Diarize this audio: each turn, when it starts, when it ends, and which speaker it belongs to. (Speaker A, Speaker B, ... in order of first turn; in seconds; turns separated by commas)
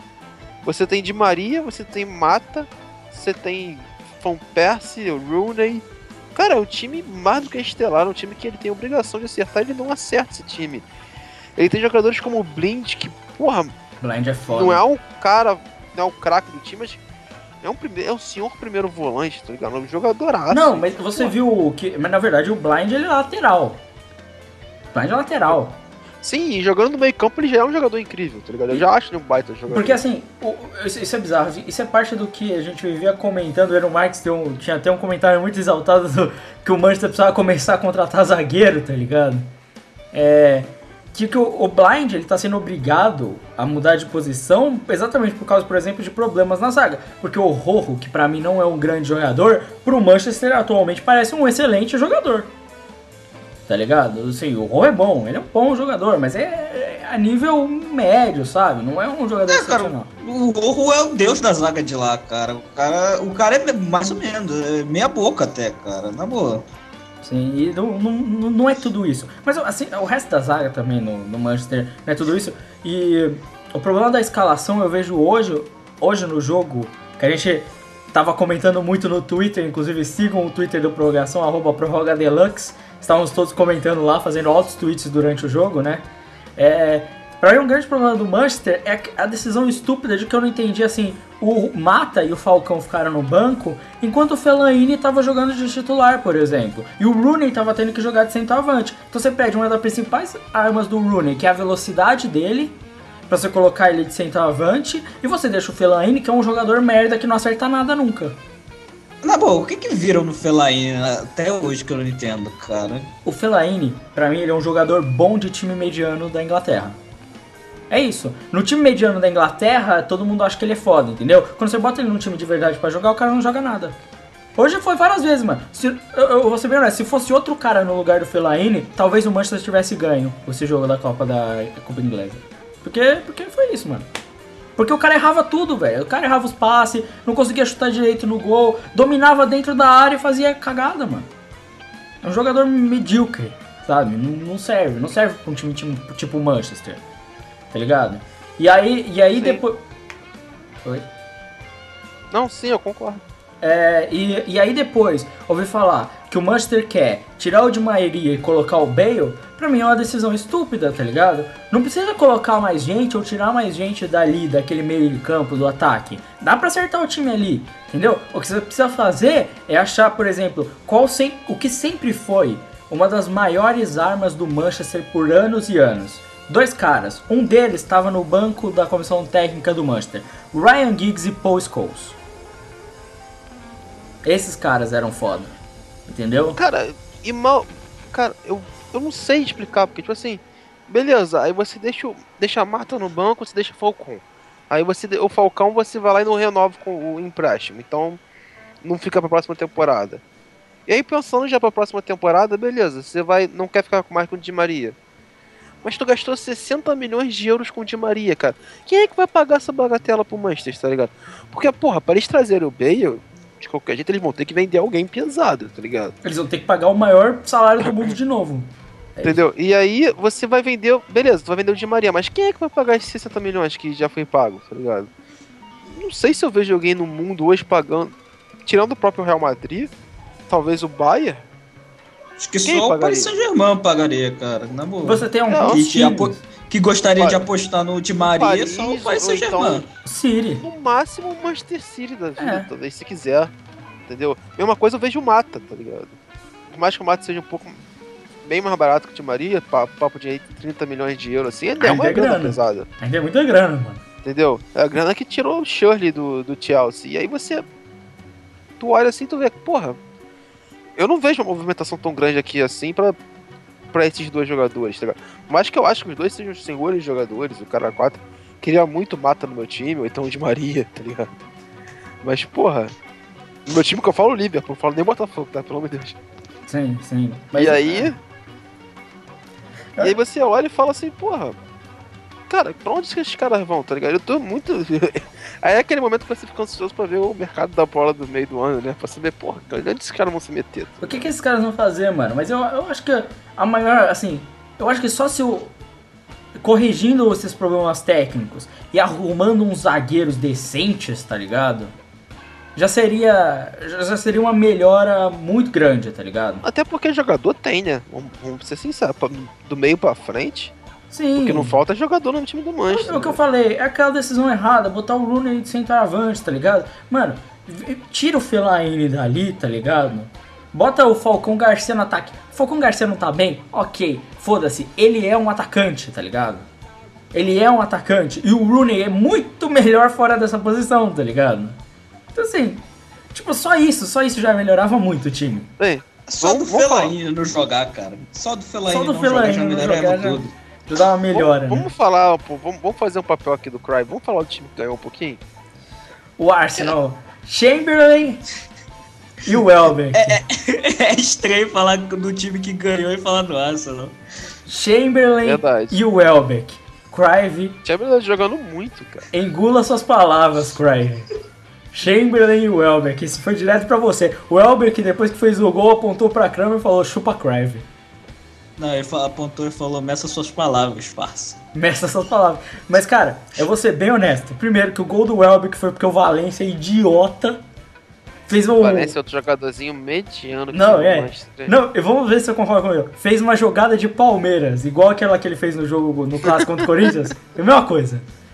Speaker A: 0.6-5.8, Speaker A: 6.3-10.8, Speaker A: 11.6-13.7, Speaker B: 14.0-14.8, Speaker A: 14.5-17.0, Speaker A: 17.6-21.3, Speaker B: 20.5-23.8, Speaker B: 24.9-25.8, Speaker A: 26.2-30.0, Speaker B: 29.7-39.5, Speaker B: 40.1-52.5, Speaker B: 53.7-60.1, Speaker C: 59.5-66.7, Speaker B: 67.2-86.0, Speaker B: 86.6-102.8, Speaker B: 103.3-108.4, Speaker C: 109.2-113.1, Speaker B: 113.2-117.0, Speaker B: 117.9-124.0, Speaker B: 124.6-134.1, Speaker B: 134.8-141.3, Speaker B: 142.2-147.0, Speaker B: 147.7-149.8, Speaker A: 152.3-153.2, Speaker B: 153.6-182.2, Speaker B: 184.2-185.5, Speaker B: 186.1-186.6, Speaker A: 186.6-198.2, Speaker A: 198.8-200.2, Speaker A: 200.9-204.9, Speaker A: 205.8-216.1, Speaker B: 216.2-219.4, Speaker A: 217.8-218.1, Speaker A: 219.2-225.1, Speaker A: 225.9-228.1, Speaker A: 228.7-229.9, Speaker A: 230.5-231.4, Speaker C: 232.4-239.9, Speaker A: 232.6-233.3, Speaker B: 235.0-236.4, Speaker A: 235.5-235.8, Speaker A: 238.2-239.9, Speaker B: 240.0-240.6, Speaker A: 240.6-243.5, Speaker B: 242.4-242.7, Speaker A: 244.1-246.1, Speaker A: 246.7-247.8, Speaker A: 248.4-252.9, Speaker B: 251.8-254.0, Speaker A: 254.2-257.7, Speaker A: 258.8-260.0, Speaker A: 261.0-263.2, Speaker A: 263.9-271.3, Speaker A: 272.2-272.9, Speaker A: 273.6-276.1, Speaker B: 276.7-278.1, Speaker A: 277.5-278.2, Speaker A: 280.0-281.6, Speaker A: 282.5-291.2, Speaker B: 291.0-295.7, Speaker B: 296.6-301.9, Speaker B: 302.8-306.6, Speaker A: 306.6-310.7, Speaker B: 311.1-311.8, Speaker A: 311.4-313.4, Speaker B: 312.9-326.6, Speaker B: 327.3-331.8, Speaker B: 332.3-335.7, Speaker A: 335.8-337.1, Speaker C: 336.3-340.5, Speaker B: 338.9-341.9, Speaker A: 341.3-345.4, Speaker B: 346.4-348.4, Speaker B: 349.4-350.4, Speaker C: 350.1-354.1, Speaker B: 354.7-357.8, Speaker A: 355.4-356.0, Speaker A: 357.8-359.3, Speaker B: 359.3-361.3, Speaker B: 361.9-367.9, Speaker C: 368.8-371.6, Speaker B: 371.7-377.6, Speaker B: 378.5-379.1, Speaker A: 378.8-381.8, Speaker B: 380.7-388.2